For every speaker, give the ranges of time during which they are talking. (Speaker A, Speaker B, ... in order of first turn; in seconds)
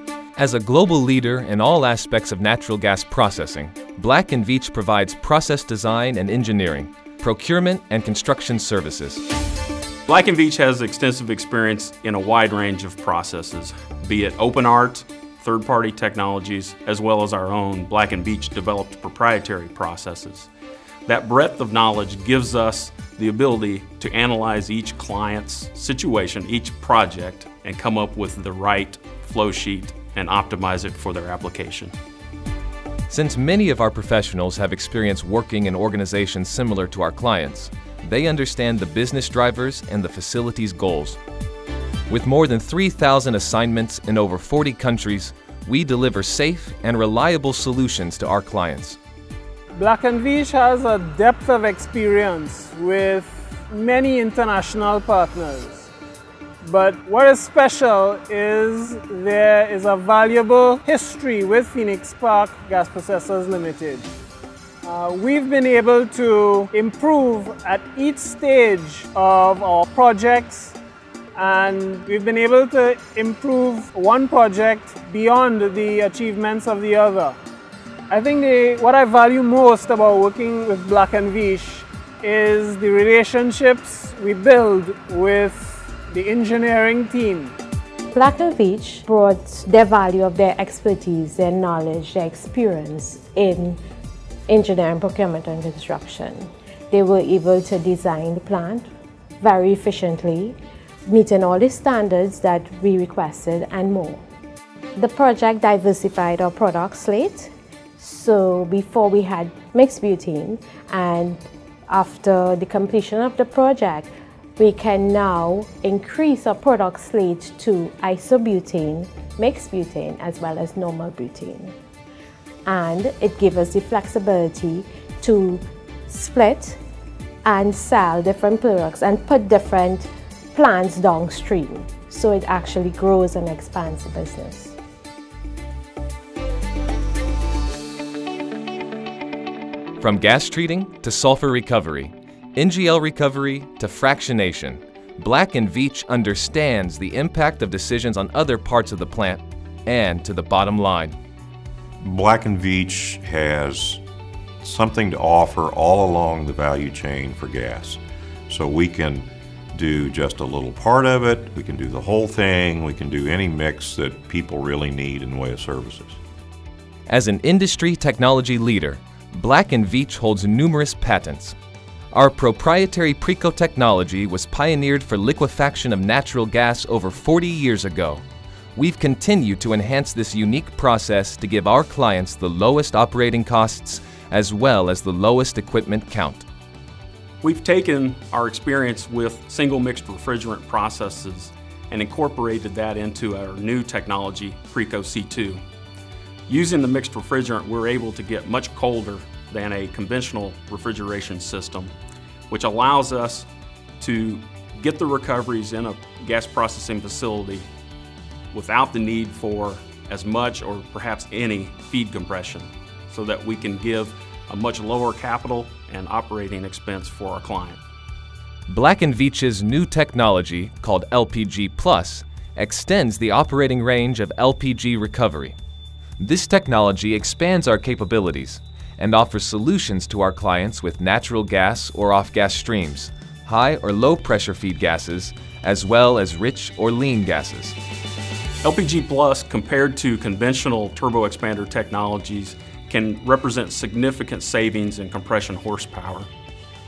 Speaker A: 0.4-9.2, 33.1-41.2, 42.1-49.0, 140.0-151.2, 167.1-171.6, 172.1-178.2, 178.8-186.5, 218.7-225.6, 226.2-237.8
Speaker B: 10.1-20.5, 21.1-31.9, 187.4-195.6, 196.5-201.9, 202.5-203.5, 204.0-207.7, 208.5-217.8, 238.6-246.3
Speaker C: 49.8-55.9, 56.6-64.1, 64.8-70.8, 71.4-77.4, 78.1-87.5
Speaker D: 88.1-93.8, 94.5-98.9, 99.4-104.2, 105.0-121.7, 122.7-126.8, 127.5-134.8
Speaker E: 152.0-154.0, 154.6-166.2